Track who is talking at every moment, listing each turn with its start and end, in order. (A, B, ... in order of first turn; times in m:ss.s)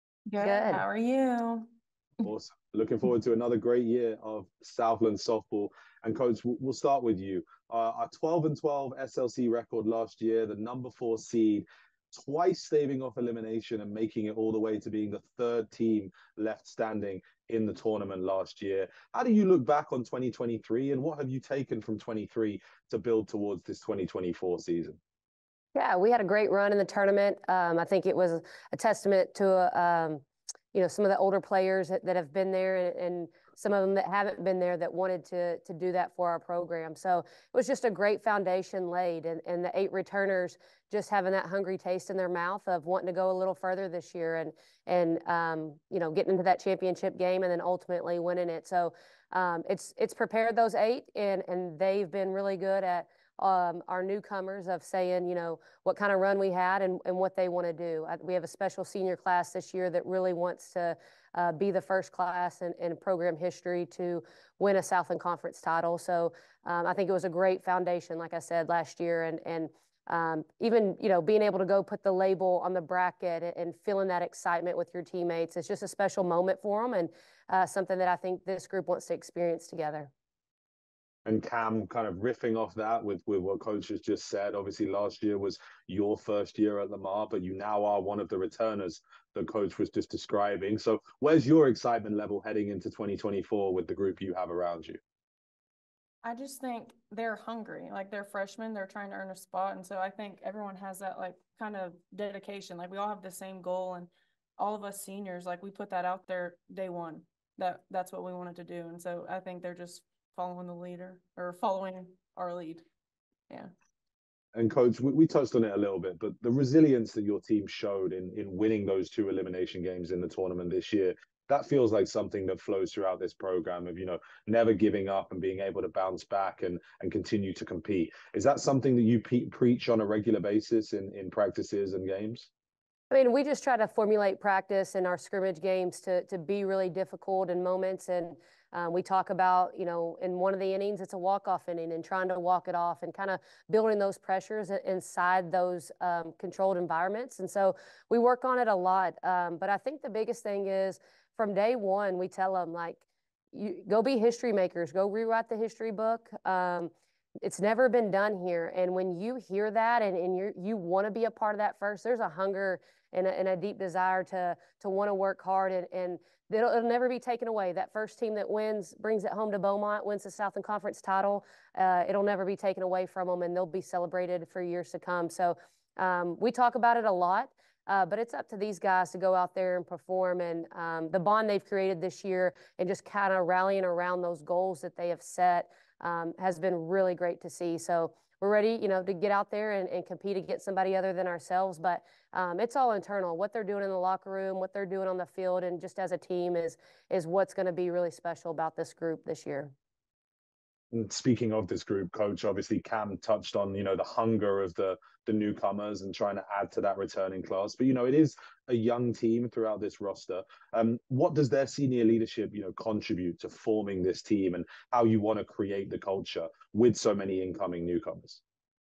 0:00.3-0:01.6 A
0:00.4-0:00.8 B
0:02.2-0:25.0 C
0:25.7-1:20.1 B
1:21.2-1:35.0 C
1:36.2-1:52.8 A
1:54.6-2:12.5 C
2:13.1-2:33.0 B
2:33.5-3:19.7 B
3:20.9-3:38.4 C